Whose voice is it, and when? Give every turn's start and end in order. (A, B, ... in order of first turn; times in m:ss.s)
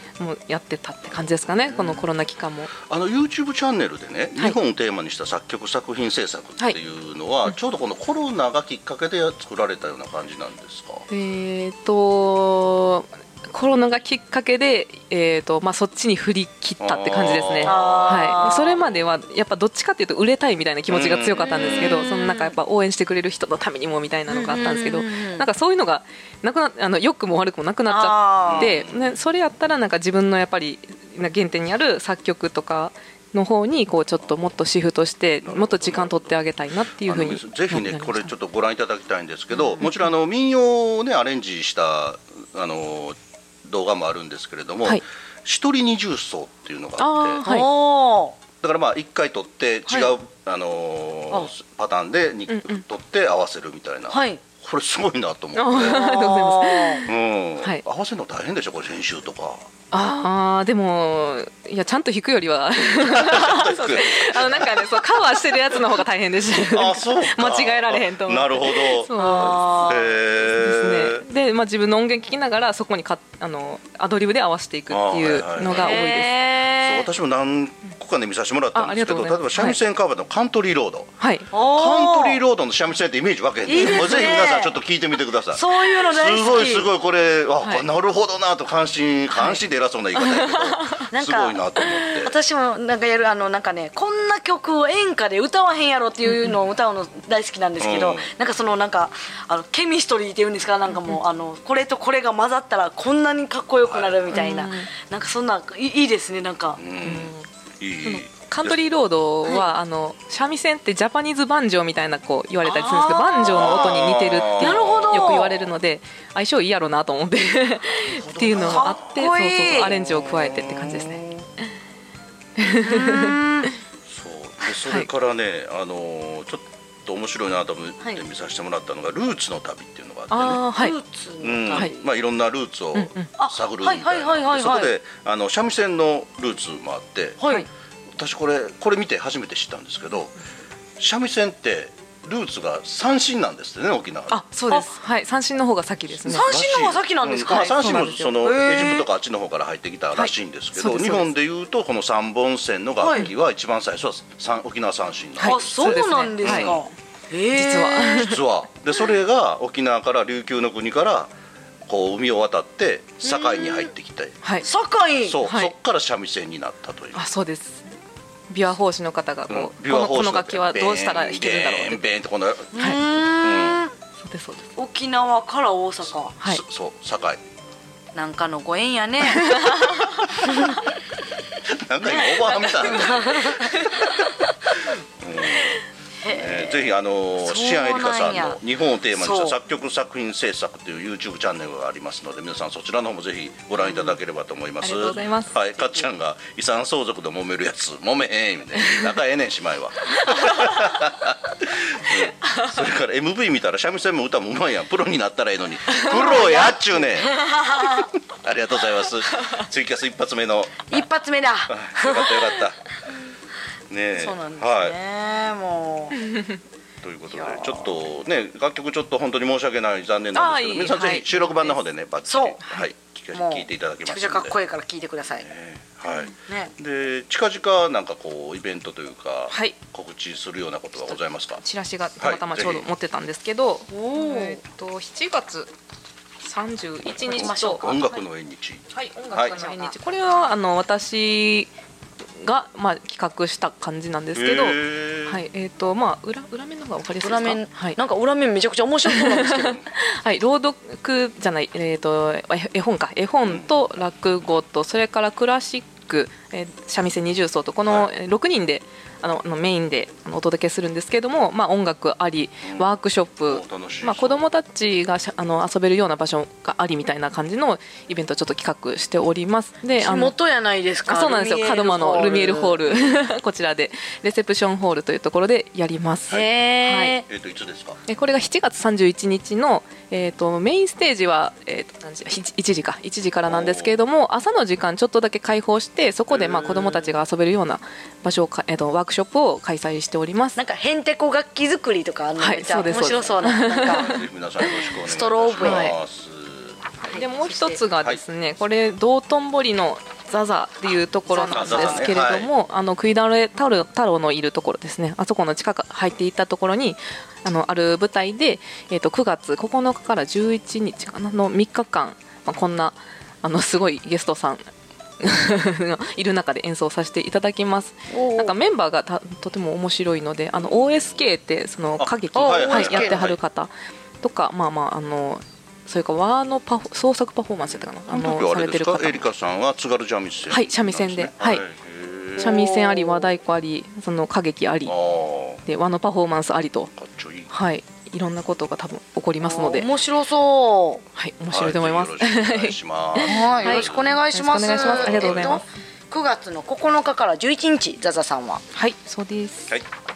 0:00.2-0:02.7 A
0:01.7-0:02.1 B
0:02.8-0:11.1 B
0:11.1-0:38.3 A
0:16.8-0:19.1 B
0:17.6-0:18.8 C
0:20.9-0:22.0 B
0:21.5-0:22.6 C
0:24.3-0:25.5 C
0:27.9-0:28.7 C
0:28.4-0:29.1 B
0:34.2-0:34.6 B
0:35.4-0:36.4 B
0:37.0-0:47.4 B
0:39.7-0:40.1 A
0:47.0-0:47.7 A
0:47.4-0:48.4 C
0:48.6-0:56.2 B
0:52.5-0:52.8 A
0:54.1-0:54.4 C
0:55.6-0:57.1 A
0:55.8-0:57.0 C
0:57.1-0:59.7 B
0:59.9-1:16.4 A
1:03.0-1:05.9 B
1:06.7-1:11.2 B
1:09.2-1:10.2 C
1:14.9-1:16.2 B
1:15.7-1:17.1 C
1:16.7-1:32.3 B
1:18.7-1:19.8 A
1:21.2-1:21.5 A
1:21.5-1:22.4 C
1:23.7-1:24.8 C
1:25.5-1:26.9 C
1:29.3-1:29.6 A
1:30.2-1:31.1 A
1:31.1-1:31.6 C
1:32.2-1:46.8 C
1:36.3-1:36.6 A
1:37.8-1:38.3 B
1:43.8-1:44.3 B
1:44.3-1:44.9 A
1:46.8-1:48.8 B
1:47.0-1:47.5 A
1:48.0-2:01.3 A
1:52.6-1:54.0 C
1:53.4-1:55.6 B
1:54.6-1:55.6 C
1:58.0-2:01.1 B
1:58.5-2:00.0 C
2:02.6-2:03.7 A
2:02.8-2:03.7 C
2:04.1-2:10.7 B
2:10.3-2:11.0 A
2:10.7-2:11.9 C
2:11.4-2:17.4 B
2:13.0-2:13.3 A
2:13.4-2:14.9 C
2:17.4-2:17.7 C
2:18.2-2:20.4 B
2:21.0-2:24.4 B
2:24.3-2:26.5 A
2:26.2-2:36.8 B
2:26.3-2:27.8 C
2:27.7-2:28.6 A
2:28.4-2:29.0 C
2:30.2-2:31.3 A
2:33.0-2:33.3 C
2:35.4-2:36.8 A
2:35.4-2:38.3 C
2:37.5-2:38.4 A
2:38.2-2:41.3 B
2:41.9-2:44.4 B
2:43.3-2:43.9 C
2:44.6-2:45.4 C
2:45.2-2:47.2 B
2:45.4-2:45.7 A
2:47.1-2:47.9 A
2:48.5-2:52.0 A
2:49.5-2:53.8 B
2:52.7-2:53.9 C
2:54.2-2:54.7 A
2:54.8-2:56.4 C
2:56.4-2:57.4 B
2:58.2-3:00.8 C
3:01.7-3:04.3 B
3:02.1-3:03.7 C
3:05.0-3:31.1 B
3:06.2-3:06.8 C
3:07.4-3:08.6 C
3:09.2-3:09.6 C
3:14.8-3:15.6 A
3:20.4-3:20.7 A
3:26.0-3:26.2 A
3:26.1-3:28.1 C
3:30.9-3:32.5 C
3:31.7-3:32.8 B
3:33.9-3:35.0 B
3:34.2-3:36.2 C
3:37.0-3:44.6 B
3:37.3-3:37.9 C
3:40.3-3:41.8 A
3:42.3-3:42.6 C
3:43.3-3:45.5 C
3:45.4-3:51.6 B
3:46.5-3:46.7 C
3:49.5-3:49.8 A
3:51.1-3:55.7 A
3:52.2-3:52.9 B
3:53.9-3:54.6 C
3:56.4-3:58.2 A
3:57.3-3:58.1 C
3:57.3-3:59.6 B
3:58.9-4:01.7 A
3:59.5-3:59.9 C
4:02.4-4:08.0 A
4:04.4-4:05.4 B
4:07.2-4:09.8 C
4:09.1-4:30.3 A
4:17.9-4:18.1 B
4:22.6-4:22.9 B
4:23.5-4:24.5 B
4:30.0-4:32.9 C
4:31.1-4:37.2 A
4:32.2-4:33.2 B
4:36.3-4:37.2 C
4:37.2-4:38.0 B
4:38.1-4:50.6 A
4:43.5-4:44.0 B
4:46.3-4:47.2 B
4:50.6-4:54.2 C
4:52.4-4:54.2 A
4:53.6-4:56.9 B
4:55.0-4:55.9 C
4:55.6-4:56.0 A
4:57.0-4:57.8 C
4:57.1-5:14.6 A
5:01.3-5:02.0 C
5:01.4-5:02.5 B
5:15.2-5:29.3 A
5:18.1-5:18.5 C
5:20.6-5:21.2 B
5:22.0-5:23.4 B
5:22.4-5:23.3 C
5:27.8-5:32.6 B
5:30.5-5:31.6 A
5:32.4-5:33.3 C
5:32.4-5:35.0 A
5:34.8-5:35.6 B
5:35.6-5:36.9 A
5:36.9-5:37.5 B
5:37.5-5:39.9 A
5:39.4-5:41.0 C
5:41.2-5:45.6 A
5:41.5-5:44.1 B
5:43.2-5:48.6 C
5:44.7-5:45.6 B
5:48.7-5:49.7 A